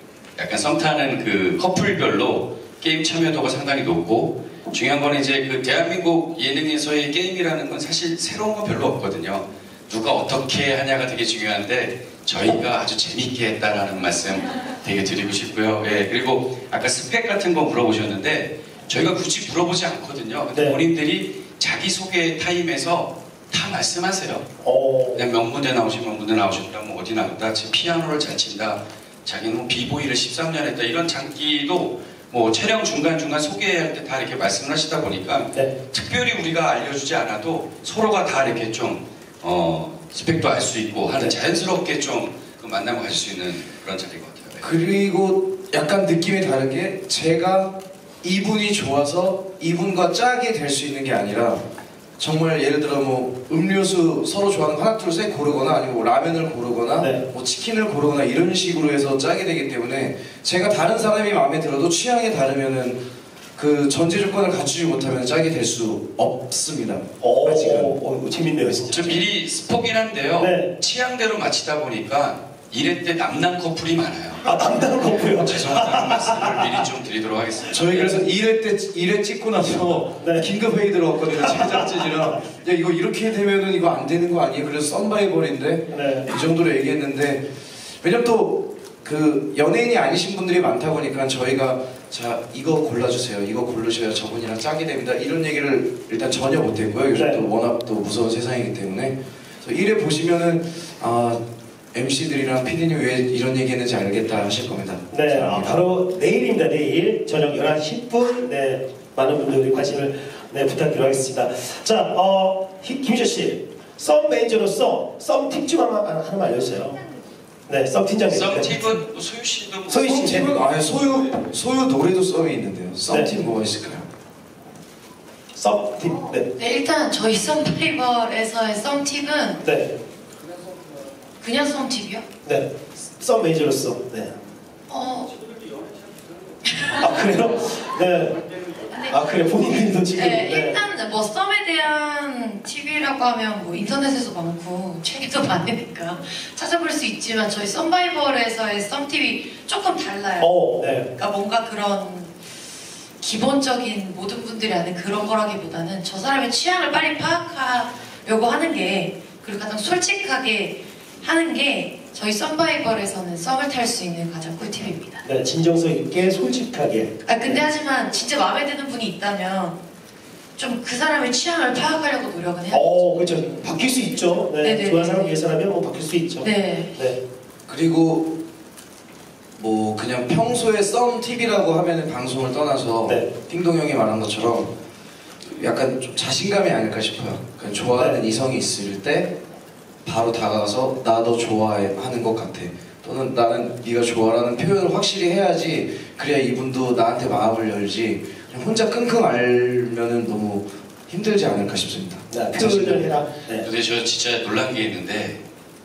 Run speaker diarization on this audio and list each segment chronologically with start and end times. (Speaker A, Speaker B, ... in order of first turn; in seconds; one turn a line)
Speaker A: 0.4-24.4
Speaker B: 20.5-20.8
Speaker B: 24.6-25.2
Speaker A: 25.1-44.7
Speaker C: 44.6-51.6
Speaker C: 52.2-63.0
Speaker C: 63.6-67.9
Speaker B: 67.2-69.2
Speaker A: 68.9-78.1
Speaker B: 70.4-70.7
Speaker B: 74.4-76.8
Speaker C: 77.7-87.4
Speaker B: 80.2-80.5
Speaker B: 81.3-82.3
Speaker B: 85.9-86.3
Speaker C: 88.0-101.4
Speaker B: 97.1-97.4
Speaker C: 101.9-105.8
Speaker B: 105.1-117.0
Speaker B: 117.7-119.0
Speaker A: 118.3-120.6
Speaker B: 119.9-120.5
Speaker C: 120.1-124.0
Speaker B: 125.5-126.4
Speaker D: 126.4-129.6
Speaker B: 129.6-129.9
Speaker D: 131.4-132.2
Speaker B: 132.4-134.3
Speaker D: 134.9-135.3
Speaker D: 136.6-137.0
Speaker B: 137.0-138.4
Speaker D: 138.9-139.2
Speaker B: 139.1-140.8
Speaker D: 140.1-150.5
Speaker B: 150.4-151.1
Speaker D: 151.1-152.4
Speaker D: 153.2-165.2
Speaker B: 165.2-167.6
Speaker D: 167.2-169.8
Speaker D: 170.6-173.4
Speaker B: 172.7-177.2
Speaker D: 174.6-175.4
Speaker D: 176.4-176.9
Speaker C: 177.7-178.3
Speaker C: 179.6-184.7
Speaker C: 185.4-189.3
Speaker B: 187.9-188.2
Speaker C: 190.0-203.2
Speaker B: 202.3-203.7
Speaker A: 203.6-205.4